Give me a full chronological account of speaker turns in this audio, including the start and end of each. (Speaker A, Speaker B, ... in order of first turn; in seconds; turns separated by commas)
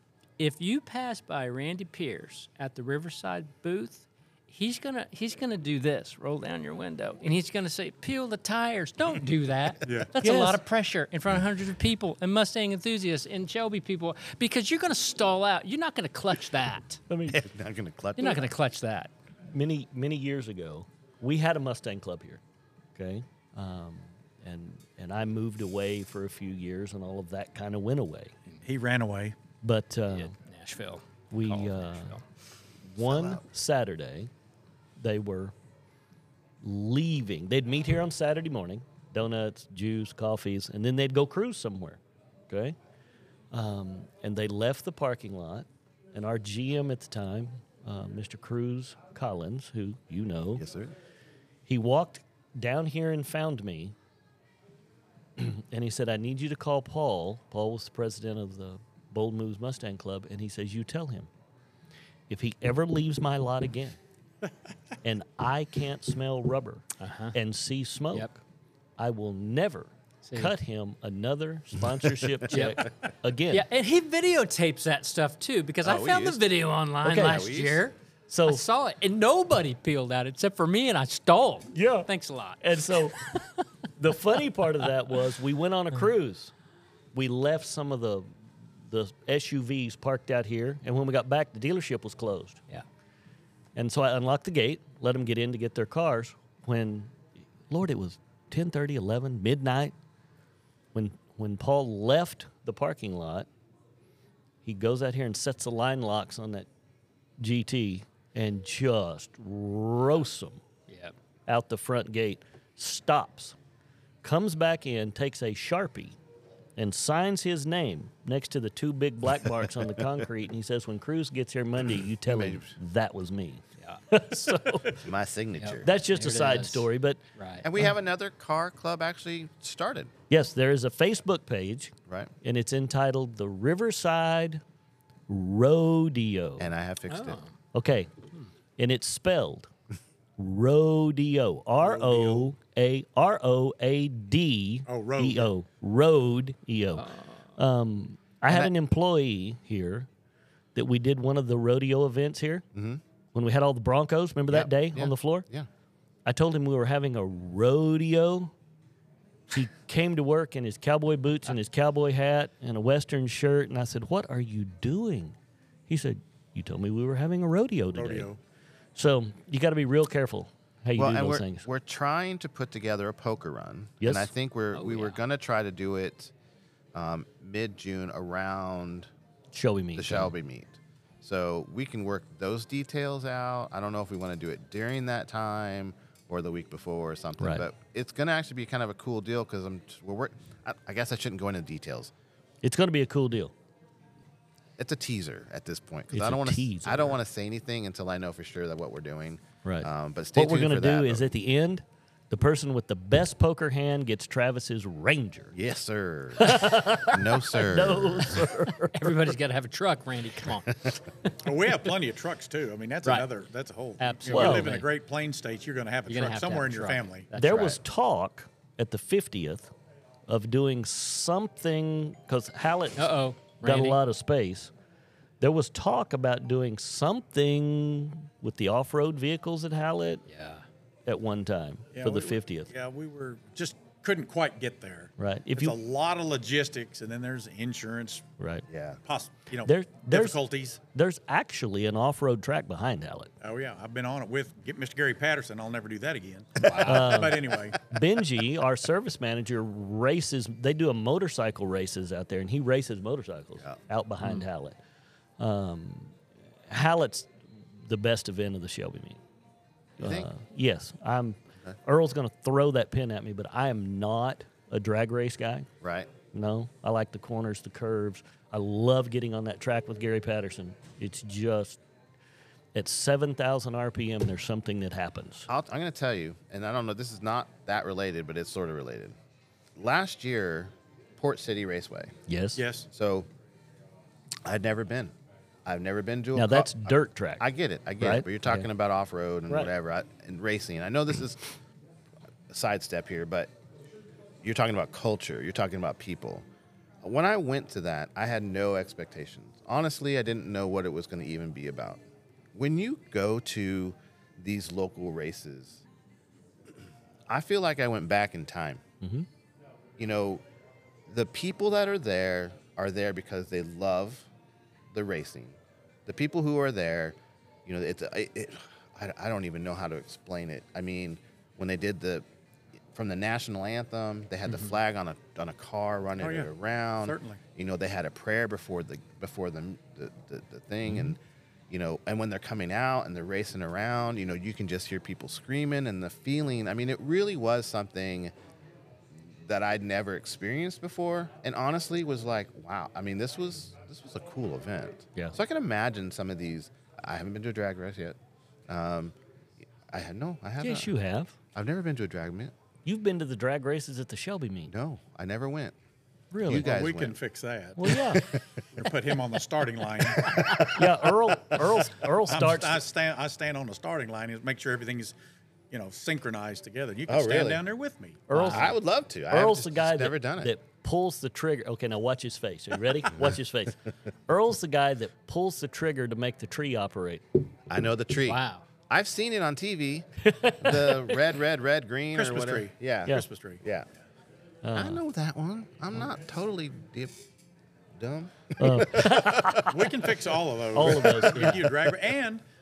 Speaker A: 0.4-17.0, Speaker B: 9.8-10.2, Speaker C: 10.2-10.6, Speaker C: 17.1-17.4, Speaker D: 17.3-18.5, Speaker A: 18.2-19.1, Speaker C: 19.5-22.4, Speaker C: 22.9-28.4, Speaker B: 28.6-29.4, Speaker C: 29.6-30.3, Speaker A: 30.1-32.2, Speaker C: 31.3-32.1, Speaker C: 32.9-34.3, Speaker D: 33.0-33.4, Speaker C: 35.0-35.5, Speaker C: 36.6-42.8, Speaker C: 43.5-50.6, Speaker D: 50.6-51.0, Speaker C: 51.7-54.0, Speaker C: 55.4-61.3, Speaker C: 62.3-64.0, Speaker C: 65.0-68.4, Speaker A: 67.0-67.3, Speaker C: 69.0-73.7, Speaker A: 70.2-70.5, Speaker D: 72.2-72.5, Speaker A: 72.5-72.8, Speaker A: 73.5-83.6, Speaker D: 75.8-76.4, Speaker C: 77.0-77.6, Speaker D: 77.2-77.8, Speaker C: 78.3-78.6, Speaker C: 81.7-82.1, Speaker C: 82.6-83.2, Speaker C: 84.0-86.5, Speaker C: 87.1-88.3, Speaker C: 88.9-92.6, Speaker C: 93.8-97.2, Speaker C: 97.7-99.9, Speaker C: 100.9-103.5, Speaker C: 104.6-106.7, Speaker C: 107.4-110.6, Speaker A: 110.9-111.1, Speaker C: 111.5-113.6, Speaker C: 114.2-116.2, Speaker C: 116.8-125.0, Speaker D: 119.4-120.1, Speaker D: 122.3-122.8, Speaker D: 125.0-125.9, Speaker A: 125.6-127.7, Speaker C: 125.8-127.2, Speaker D: 127.6-130.1, Speaker C: 130.3-134.6, Speaker C: 135.3-136.7, Speaker D: 136.6-137.4, Speaker A: 137.1-137.5, Speaker C: 137.7-138.1, Speaker C: 138.8-139.7, Speaker C: 140.4-150.1, Speaker B: 141.8-142.5, Speaker B: 144.9-145.5, Speaker A: 147.0-147.3, Speaker D: 148.5-148.7, Speaker C: 150.8-152.7, Speaker D: 152.7-153.0, Speaker C: 153.3-155.4, Speaker D: 154.5-155.7, Speaker C: 156.3-158.5, Speaker C: 159.5-165.4, Speaker C: 165.9-168.3, Speaker B: 167.9-168.4, Speaker C: 168.9-171.7, Speaker D: 171.0-176.3, Speaker C: 174.0-174.3, Speaker A: 174.7-175.2, Speaker D: 176.9-179.1, Speaker C: 179.5-180.3, Speaker D: 180.0-192.1, Speaker C: 187.4-187.7, Speaker C: 192.6-193.5, Speaker D: 194.8-201.3, Speaker C: 196.1-197.2, Speaker C: 199.6-205.5, Speaker D: 205.5-208.5, Speaker C: 206.4-209.3, Speaker A: 208.9-210.9, Speaker B: 211.4-217.3, Speaker A: 214.0-214.9, Speaker C: 214.3-214.8, Speaker A: 216.1-217.8, Speaker C: 217.3-219.7, Speaker D: 217.4-217.8, Speaker C: 220.3-224.7, Speaker A: 223.0-224.0, Speaker C: 225.4-230.2, Speaker A: 230.3-230.7, Speaker C: 231.1-232.7, Speaker B: 231.9-238.3, Speaker C: 235.2-235.8, Speaker C: 238.4-238.7, Speaker D: 238.7-239.0, Speaker B: 239.0-240.8, Speaker C: 239.6-240.4, Speaker C: 240.9-243.3, Speaker B: 243.4-248.0, Speaker A: 246.6-247.3, Speaker C: 246.8-254.8, Speaker C: 255.4-256.2, Speaker C: 256.7-259.2, Speaker D: 260.0-260.3, Speaker C: 260.0-265.7, Speaker D: 265.8-266.1, Speaker C: 266.3-271.8, Speaker C: 272.8-275.5, Speaker D: 275.5-279.2, Speaker D: 279.8-282.1, Speaker C: 282.3-282.6, Speaker B: 282.6-282.9, Speaker D: 282.9-283.3, Speaker D: 284.4-285.1, Speaker D: 285.6-291.5, Speaker C: 286.4-287.5, Speaker C: 288.0-288.7, Speaker D: 292.5-293.5, Speaker D: 294.4-296.4, Speaker D: 297.0-302.0, Speaker D: 302.5-305.8, Speaker D: 306.7-308.8, Speaker C: 309.0-309.3, Speaker D: 310.0-310.4, Speaker D: 311.1-314.3, Speaker D: 314.9-322.2, Speaker D: 322.9-331.2, Speaker B: 326.2-326.5, Speaker B: 327.0-327.4, Speaker D: 331.7-338.3, Speaker D: 339.1-348.2, Speaker D: 348.7-349.1, Speaker D: 349.9-350.9, Speaker C: 350.6-351.4, Speaker D: 351.6-352.5, Speaker C: 352.9-354.7, Speaker D: 354.7-355.8, Speaker C: 356.3-356.7, Speaker D: 356.4-357.2, Speaker B: 356.5-358.0, Speaker C: 357.8-358.3, Speaker D: 357.9-358.6, Speaker B: 358.7-360.9, Speaker D: 360.2-360.9, Speaker C: 360.7-362.8, Speaker B: 362.3-365.1, Speaker B: 365.7-368.2, Speaker D: 367.1-367.6, Speaker C: 368.3-377.2, Speaker A: 368.3-368.7, Speaker D: 368.5-370.5, Speaker D: 373.1-373.4, Speaker D: 377.7-383.9, Speaker A: 378.2-378.6, Speaker C: 380.2-381.1, Speaker B: 382.1-383.6, Speaker C: 384.6-385.0, Speaker D: 384.8-387.1, Speaker D: 388.0-389.6, Speaker C: 388.6-390.0, Speaker B: 389.7-392.4, Speaker C: 390.7-391.9, Speaker A: 391.3-391.6